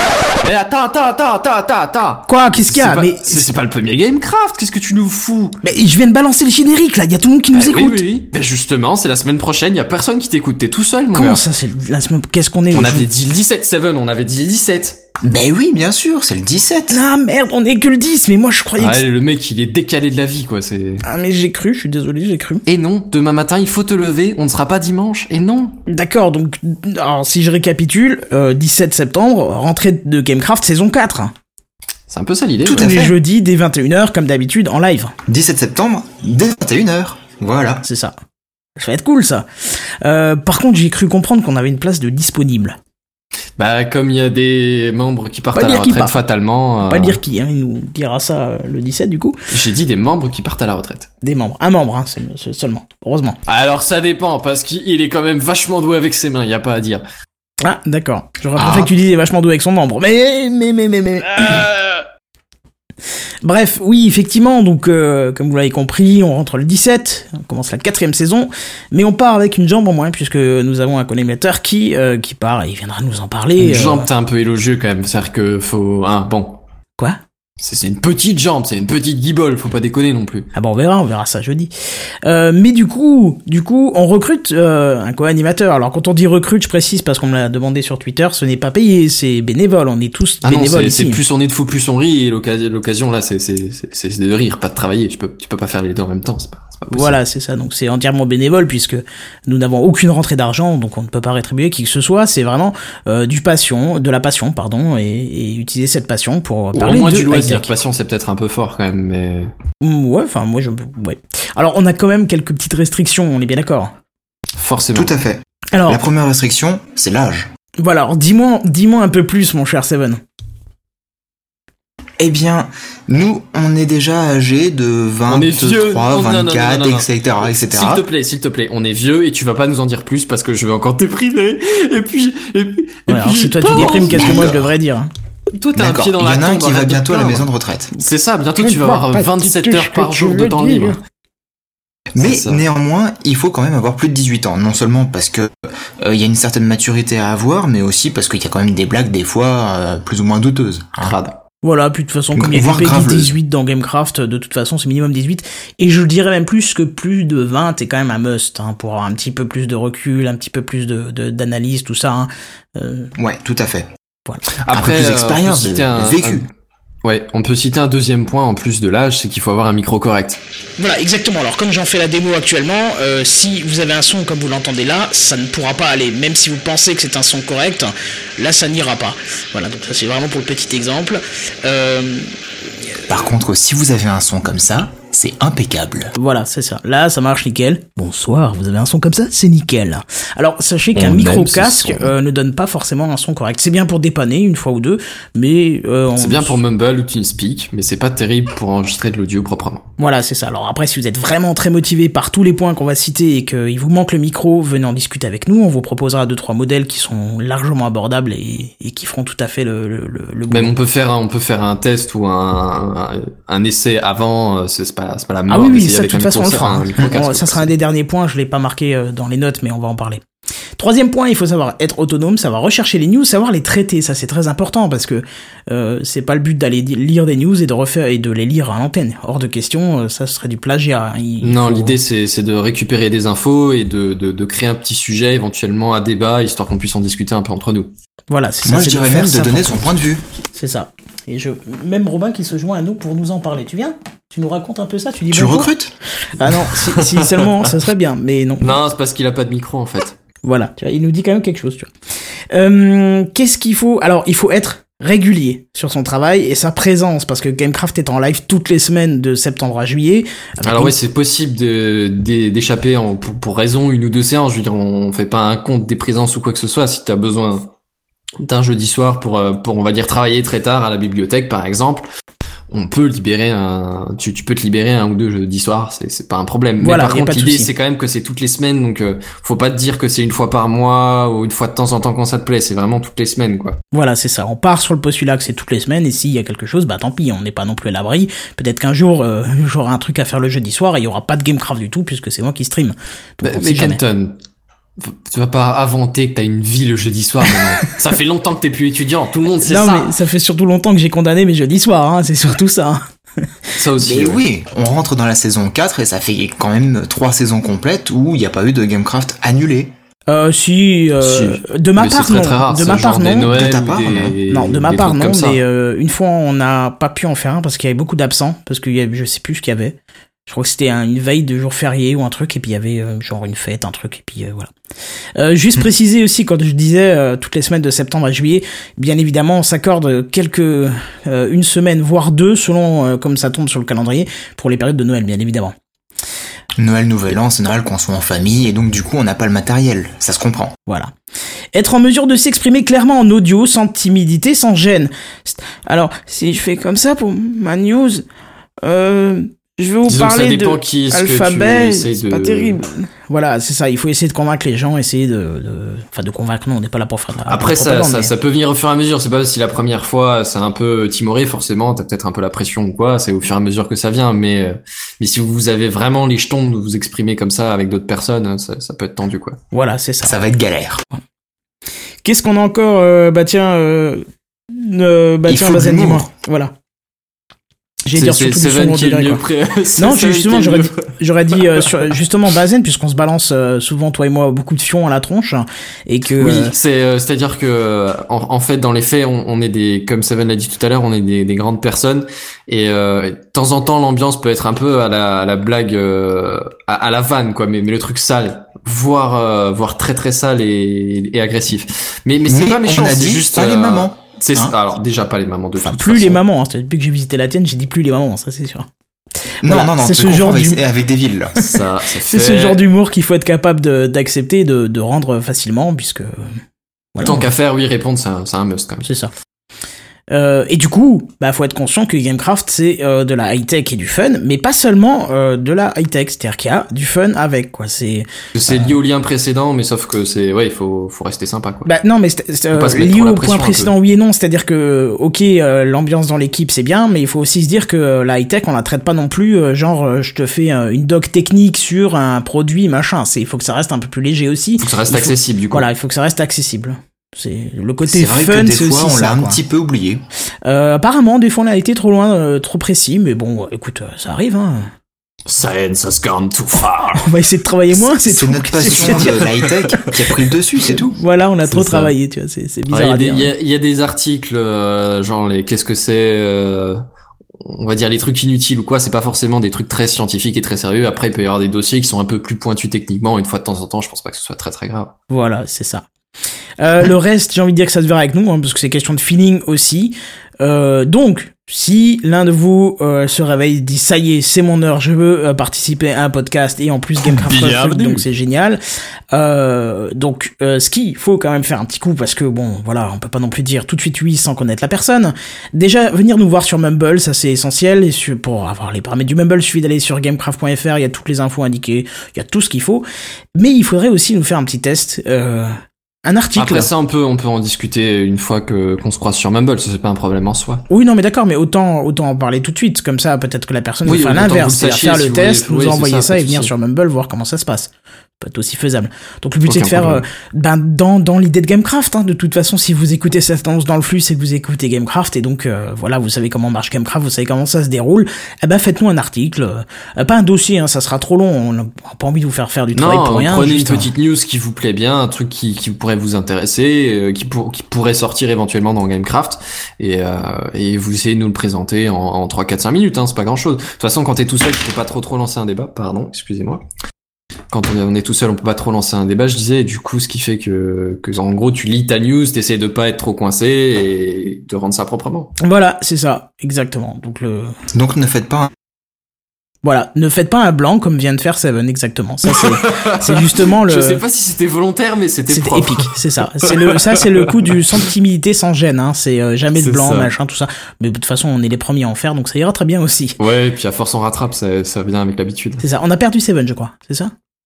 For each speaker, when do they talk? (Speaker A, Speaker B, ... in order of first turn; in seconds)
Speaker A: 0.4-5.6, 7.5-11.4, 12.7-15.0, 18.8-21.1, 22.7-25.8, 32.1-33.0, 43.6-47.2, 49.5-51.1, 53.5-57.0, 73.6-76.6, 77.6-80.5, 90.4-97.2, 106.7-109.5, 114.6-115.2, 125.3-134.5, 135.6-137.5, 138.0-141.0, 142.2-142.7, 151.0-151.4, 164.6-166.5, 167.0-170.4, 190.9-192.1, 196.2-199.8, 210.5-217.7, 231.4-237.9, 246.4-247.7, 248.6-250.2, 260.6-267.7, 268.4-272.1, 272.7-283.8, 293.4-294.4, 295.0-300.1, 303.8-304.4, 311.2-315.6, 350.1-352.8, 357.5-369.6, 378.1-382.1, 386.3-406.4, 411.6-412.8, 417.2-419.1, 428.6-431.9, 432.7-433.9, 444.8-445.9, 455.5-457.3, 458.8-460.1, 461.7-462.1, 462.9-467.0, 467.6-475.1, 487.2-488.3, 506.6-510.8, 514.0-516.7, 519.6-520.2, 533.0-546.8, 547.7-555.5, 562.5-568.1, 569.8-570.3, 573.4-575.8
Speaker B: 2.3-3.5, 5.6-8.0, 11.1-13.1, 16.9-19.0, 21.0-22.6, 25.9-31.3, 32.7-35.1, 37.8-38.1, 38.8-39.5, 40.0-42.8, 45.5-46.2, 46.8-49.4, 51.2-53.4, 57.6-62.1, 63.4-74.1, 80.5-81.7, 82.2-91.2, 96.9-107.7, 109.8-113.9, 115.7-116.1, 117.8-120.2, 133.1-135.1, 138.6-141.0, 151.6-163.1, 170.8-182.3, 186.2-196.6, 200.0-210.8, 215.5-220.2, 220.8-232.0, 238.3-239.9, 240.5-245.7, 246.3-248.8, 250.4-251.9, 252.5-260.9, 276.8-277.7, 283.9-294.0, 299.6-303.0, 310.3-313.6, 314.5-320.0, 320.5-324.7, 325.4-335.7, 341.7-348.2, 348.8-358.3, 369.7-370.4, 372.2-376.7, 378.1-379.4, 380.0-386.8, 405.9-408.9, 409.6-410.9, 411.7-416.3, 417.1-417.5, 419.0-419.3, 420.3-428.9, 431.9-449.6, 450.6-454.9, 457.1-459.4, 460.9-463.5, 475.3-476.1, 476.8-488.8, 489.3-503.0, 503.6-505.7, 506.2-506.9, 510.9-534.1, 555.6-557.7, 559.8-564.2, 565.5-573.4, 575.8-577.3
Speaker C: 15.2-17.0, 32.7-33.2, 35.3-37.8, 58.6-58.9, 114.9-117.5, 122.2-128.1, 133.7-134.7, 135.8-137.9, 142.2-151.2, 152.3-153.3, 163.2-163.9, 164.7-166.4, 183.1-186.1, 238.7-240.2, 245.3-245.9, 304.0-309.9, 313.4-314.4, 336.8-340.7, 370.2-371.0, 375.5-376.3, 402.5-404.8, 409.6-411.6, 448.1-450.2, 457.9-461.2, 557.9-558.7